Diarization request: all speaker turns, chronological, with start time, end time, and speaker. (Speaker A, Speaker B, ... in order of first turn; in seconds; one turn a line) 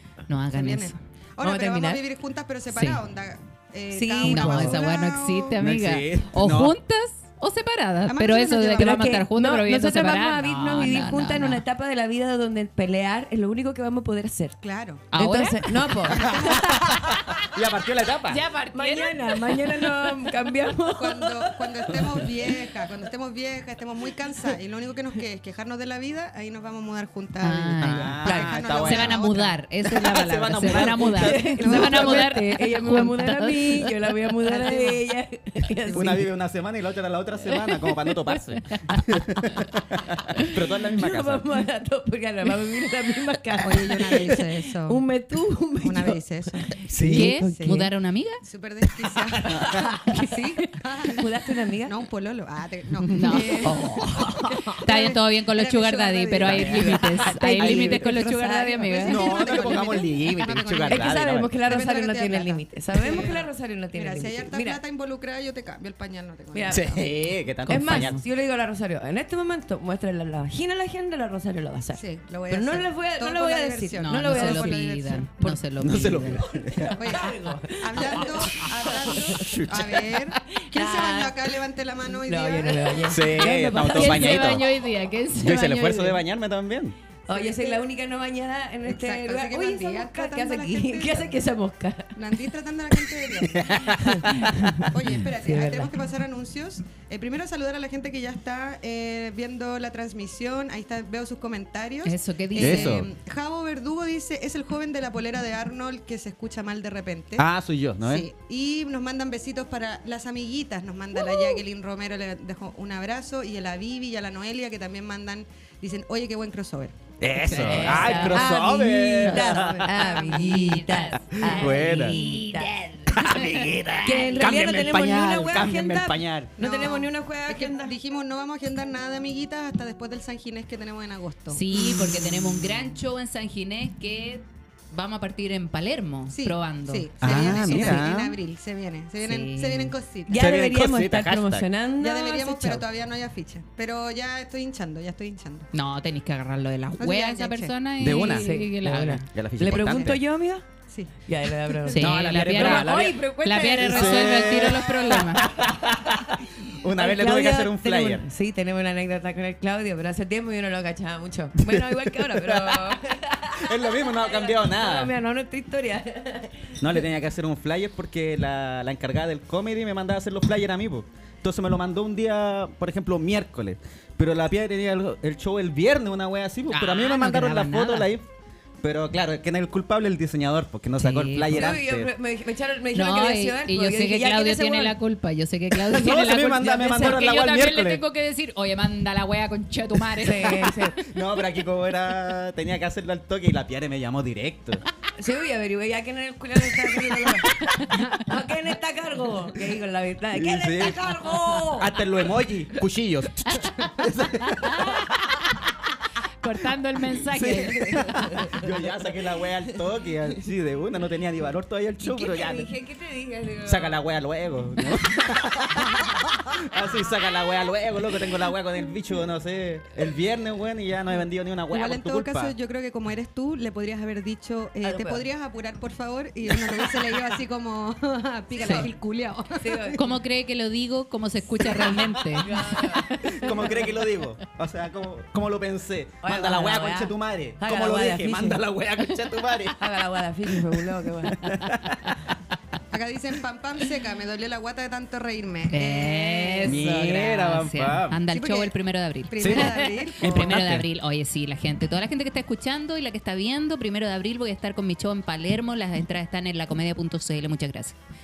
Speaker A: 0.3-1.0
Speaker B: 0.5-5.5
Speaker C: 1.4-2.0
Speaker A: 2.7-3.0
Speaker C: 3.9-4.8
Speaker A: 4.3-11.6
Speaker D: 5.6-6.8
Speaker B: 8.1-9.0
Speaker C: 8.8-14.6
Speaker B: 14.6-15.0
Speaker A: 15.1-15.9
Speaker C: 15.1-16.9
Speaker B: 16.1-16.7
Speaker D: 16.2-18.4
Speaker A: 18.3-19.6
Speaker C: 18.7-22.0
Speaker B: 20.9-29.6
Speaker A: 27.4-33.9
Speaker D: 27.8-29.2
Speaker C: 28.2-28.6
Speaker D: 29.8-31.4
Speaker C: 31.1-36.3
Speaker B: 31.6-32.4
Speaker B: 34.5-34.9
Speaker B: 35.8-36.2
Speaker D: 35.9-41.5
Speaker A: 37.5-37.9
Speaker C: 40.5-47.9
Speaker B: 43.6-45.0
Speaker B: 45.8-47.8
Speaker D: 46.9-47.3
Speaker A: 47.1-48.4
Speaker B: 48.4-51.3
Speaker D: 49.5-50.1
Speaker C: 49.5-50.5
Speaker C: 51.1-51.9
Speaker B: 51.9-57.0
Speaker A: 53.1-59.4
Speaker C: 53.3-54.7
Speaker D: 56.4-58.1
Speaker C: 56.9-59.9
Speaker B: 58.9-67.0
Speaker D: 59.0-61.5
Speaker C: 60.8-64.8
Speaker C: 66.5-66.9
Speaker D: 66.7-68.2
Speaker A: 67.7-68.2
Speaker C: 67.7-75.6
Speaker B: 71.9-75.2
Speaker A: 74.0-76.4
Speaker D: 75.8-77.0
Speaker C: 76.5-79.8
Speaker B: 76.9-83.2
Speaker D: 79.1-80.3
Speaker C: 80.5-81.5
Speaker C: 82.1-84.6
Speaker D: 83.1-84.7
Speaker A: 83.8-86.2
Speaker D: 85.4-86.9
Speaker C: 87.3-92.4
Speaker B: 87.3-87.8
Speaker B: 88.8-91.4
Speaker B: 92.2-93.8
Speaker C: 93.0-93.2
Speaker D: 93.5-94.9
Speaker C: 94.0-95.9
Speaker B: 94.9-107.5
Speaker A: 102.0-103.0
Speaker D: 102.5-103.1
Speaker D: 107.4-108.3
Speaker B: 108.0-116.9
Speaker D: 117.2-119.9
Speaker A: 117.4-118.5
Speaker C: 117.6-122.7
Speaker B: 119.3-120.5
Speaker A: 120.0-123.7
Speaker D: 121.3-122.2
Speaker D: 123.1-126.5
Speaker C: 124.0-127.9
Speaker B: 126.6-131.6
Speaker A: 131.5-137.1
Speaker B: 136.3-140.5
Speaker D: 137.2-138.4
Speaker A: 137.7-138.1
Speaker A: 139.2-139.9
Speaker C: 140.3-142.8
Speaker D: 140.3-141.7
Speaker B: 142.0-145.7
Speaker A: 145.7-149.2
Speaker B: 147.0-147.7
Speaker D: 148.0-148.6
Speaker C: 148.1-150.7
Speaker D: 149.2-150.2
Speaker B: 149.7-150.2
Speaker C: 151.2-155.6
Speaker A: 151.9-155.4
Speaker D: 151.9-158.2
Speaker C: 156.9-167.0
Speaker D: 161.6-163.0
Speaker D: 163.6-165.1
Speaker D: 166.8-178.2
Speaker A: 176.7-178.1
Speaker D: 178.8-182.1
Speaker A: 181.0-181.7
Speaker C: 181.5-185.0
Speaker A: 182.9-191.0
Speaker D: 185.7-188.0
Speaker C: 190.2-191.0
Speaker D: 191.0-194.8
Speaker C: 195.2-202.0
Speaker D: 200.3-205.3
Speaker A: 204.4-205.1
Speaker A: 206.4-208.3
Speaker D: 207.2-212.7
Speaker C: 208.3-208.7
Speaker C: 212.0-214.0
Speaker D: 213.6-222.5
Speaker B: 221.7-230.0
Speaker C: 224.8-225.3
Speaker C: 228.6-228.9
Speaker A: 228.6-228.9
Speaker C: 229.6-230.1
Speaker A: 229.9-232.7
Speaker D: 231.8-242.2
Speaker C: 232.4-233.9
Speaker C: 236.2-238.6
Speaker C: 239.8-241.4
Speaker B: 242.9-246.8
Speaker A: 245.7-258.0
Speaker D: 246.6-248.2
Speaker B: 248.3-248.8
Speaker B: 249.3-250.6
Speaker D: 249.4-250.9